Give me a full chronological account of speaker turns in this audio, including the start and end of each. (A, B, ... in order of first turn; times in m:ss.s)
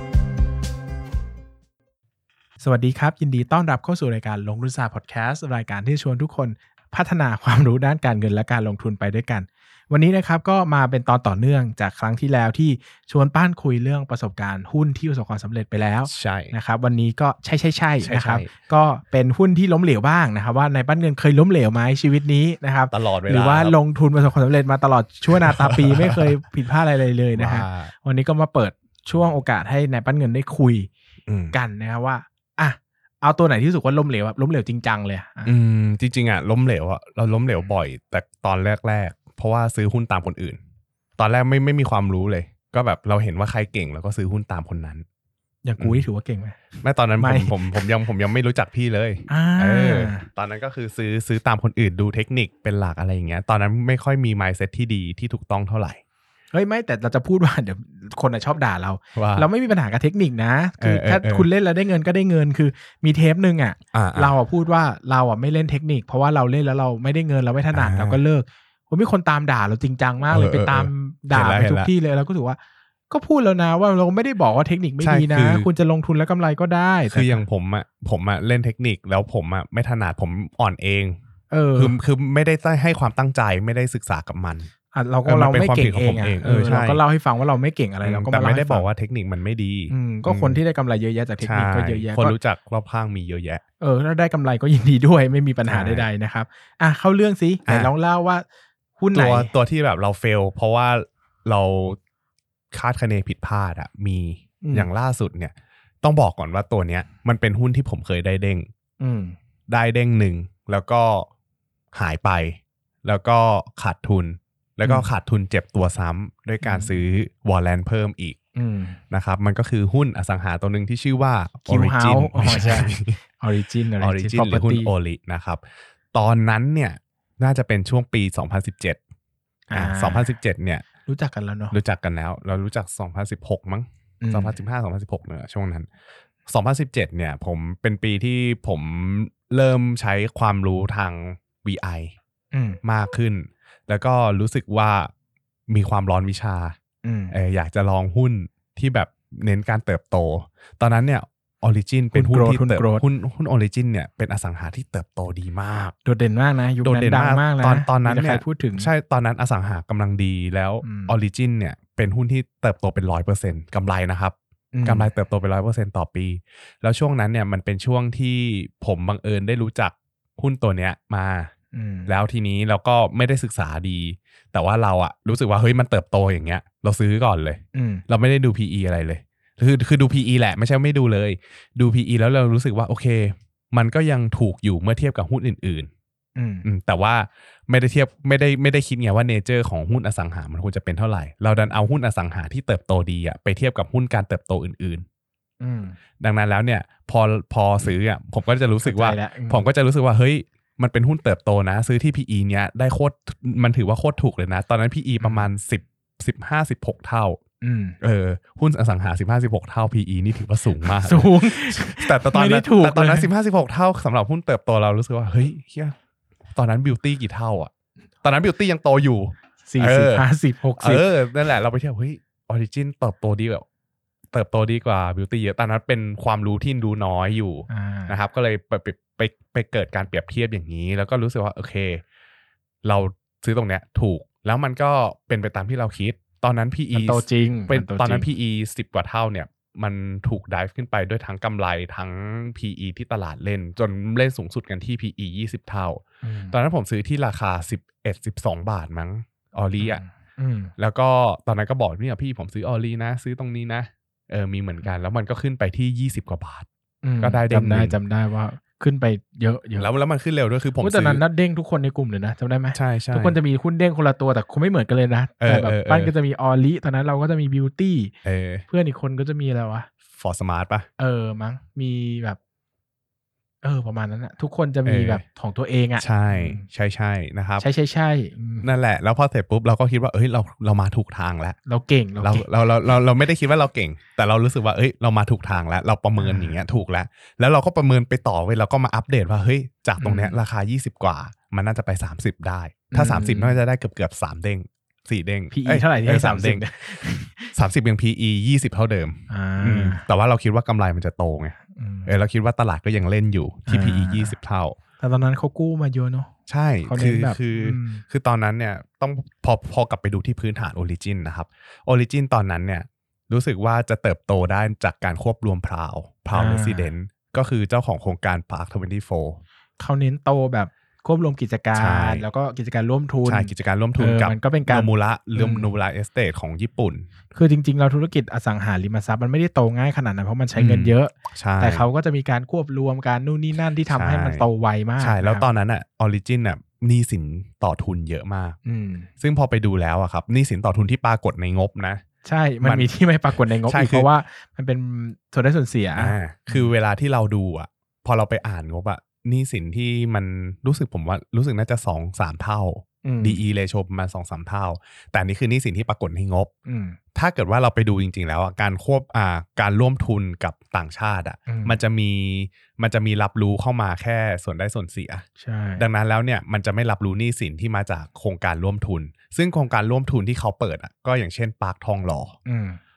0:02.6-0:30.9 A
0:16.0-0:16.6 B
0:18.0-0:18.5 B
0:22.9-0:23.8 B
0:25.3-0:26.2 B
0:27.3-0:27.9 B
0:31.3-0:31.5 B
0:31.5-0:35.5 A
0:35.4-0:40.6 B
0:41.2-0:45.0 B
0:45.6-0:47.8 A
0:45.8-0:46.0 B
0:46.8-0:56.0 B
0:49.3-0:50.2 A
0:56.5-1:12.6 A
0:59.2-0:59.5 B
1:00.8-1:01.5 B
1:03.9-1:04.4 B
1:07.7-1:08.2 B
1:10.3-1:11.9 B
1:13.1-1:17.4 A
1:15.0-1:15.7 B
1:17.1-1:21.2 B
1:21.5-1:22.0 A
1:21.8-1:24.7 B
1:24.9-1:28.9 A
1:25.2-1:27.0 B
1:28.0-1:30.6 B
1:29.9-1:32.4 A
1:31.4-1:33.6 B
1:33.8-1:38.4 A
1:35.6-1:36.1 B
1:37.7-1:37.9 B
1:39.0-1:39.5 A
1:39.1-1:42.0 B
1:42.7-1:48.7 B
1:44.6-1:44.9 A
1:49.0-1:49.4 A
1:49.7-1:51.3 B
1:51.9-1:58.4 B
1:56.6-1:57.0 A
1:58.6-1:59.0 A
1:59.1-2:03.2 B
2:01.7-2:04.9 A
2:04.0-2:05.6 B
2:06.1-2:09.0 B
2:09.7-2:10.3 A
2:09.7-2:10.8 B
2:11.1-2:11.8 A
2:11.7-2:15.9 B
2:14.2-2:14.5 A
2:16.5-2:22.1 B
2:22.5-2:22.8 A
2:22.8-2:25.1 B
2:25.7-2:26.8 B
2:27.0-2:27.4 A
2:27.3-2:35.9 B
2:32.1-2:33.0 A
2:36.0-2:38.9 A
2:36.8-2:51.5 B
2:40.8-2:41.1 A
2:44.7-2:45.1 A
2:51.7-2:52.1 A
2:52.1-3:05.9 B
2:57.7-2:58.0 A
3:06.4-3:06.7 A
3:06.6-3:15.0 B
3:15.6-3:16.0 A
3:16.2-3:27.4 B
3:18.8-3:19.7 A
3:25.2-3:25.5 A
3:27.6-3:28.0 A
3:28.0-3:35.9 B
3:30.8-3:33.3 A
3:36.5-3:37.7 B
3:38.2-3:40.2 B
3:39.7-3:41.1 A
3:40.8-3:43.6 B
3:44.3-3:52.0 B
3:47.7-3:48.2 A
3:52.8-4:10.0 B
3:56.9-3:58.3 A
4:06.2-4:06.6 A
4:09.8-4:10.7 A
4:10.8-4:16.7 B
4:17.0-4:19.9 A
4:17.2-4:18.0 B
4:19.8-4:21.2 B
4:20.8-4:28.2 A
4:22.7-4:23.4 B
4:25.4-4:26.1 B
4:28.2-4:28.7 B
4:28.7-4:29.9 A
4:30.2-4:30.9 B
4:31.0-4:32.4 A
4:33.6-4:36.6 A
4:34.8-4:35.2 B
4:36.0-4:37.7 B
4:37.6-4:38.7 A
4:38.6-4:41.6 B
4:41.7-4:42.5 A
4:42.2-4:56.7 B
4:46.2-4:46.6 A
4:50.0-4:50.4 A
4:52.9-4:53.6 A
4:55.5-4:57.5 A
4:57.5-5:04.8 B
4:59.3-5:00.0 A
5:01.8-5:02.1 A
5:03.7-5:04.4 A
5:05.0-5:06.3 A
5:06.5-5:19.4 B
5:06.9-5:08.0 A
5:16.3-5:16.9 A
5:19.8-5:25.7 A
5:21.8-5:22.2 B
5:23.2-5:27.1 B
5:27.3-5:35.5 A
5:30.6-5:31.9 B
5:33.9-5:34.5 B
5:35.0-5:38.6 B
5:38.7-5:39.1 A
5:39.2-5:42.0 B
5:42.2-5:46.7 A
5:42.6-5:42.9 B
5:43.5-5:44.1 B
5:46.0-5:56.5 B
5:53.0-5:53.4 A
5:56.7-5:57.0 A
5:57.2-6:05.2 B
6:01.5-6:01.8 A
6:05.4-6:05.8 A
6:05.8-6:12.4 B
6:12.5-6:12.8 A